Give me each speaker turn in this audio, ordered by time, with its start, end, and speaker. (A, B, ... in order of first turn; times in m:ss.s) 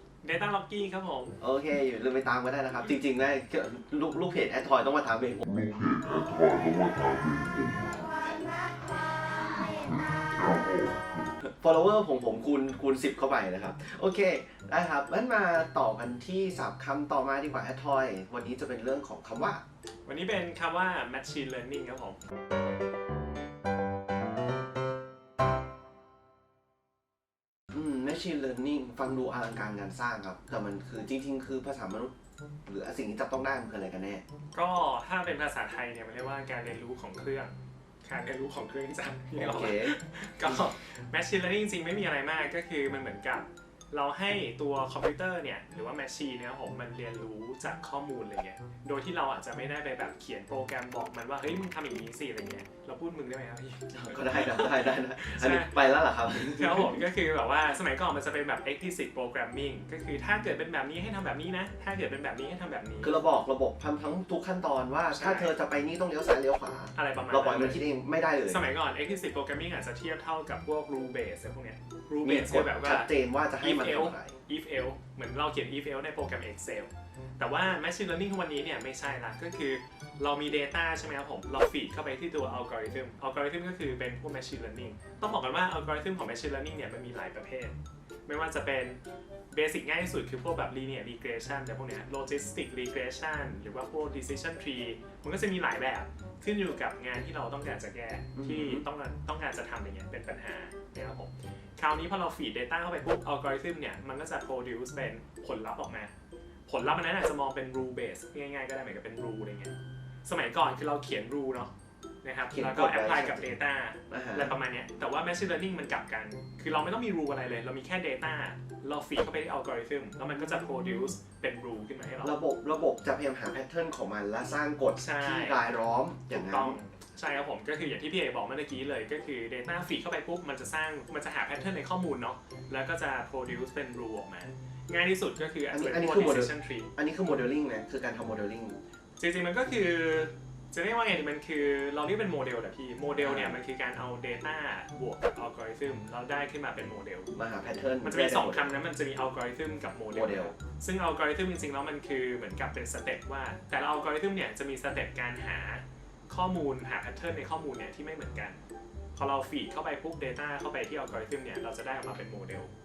0:00.2-0:01.4 A
0:01.4-0:05.4 B
0:05.5-0:08.5 C
0:09.6-0:11.3 C
0:11.4-0:19.6 B
0:20.0-0:22.2 A
0:27.7-0:32.1 B
0:32.6-0:34.2 B
0:34.5-0:55.7 A
0:39.3-0:40.6 B
0:53.9-0:57.0 B
0:56.4-1:03.2 A
1:03.0-1:08.6 B
1:05.1-1:05.5 A
1:06.9-1:07.8 A
1:08.4-1:27.8 A
1:12.2-1:14.3 B
1:28.3-1:29.0 A
1:29.5-1:46.1 A
1:38.3-1:38.8 B
1:46.7-1:51.7 A
1:52.2-2:02.4 A
1:52.5-1:53.5 B
1:54.1-1:54.5 B
2:00.4-2:01.1 B
2:02.2-2:06.8 B
2:04.9-2:05.6 A
2:06.3-2:16.9 A
2:15.7-2:18.8 B
2:19.2-2:27.3 A
2:23.1-2:23.6 B
2:27.3-2:28.7 B
2:28.0-2:38.6 A
2:30.1-2:30.5 B
2:39.2-2:42.7 A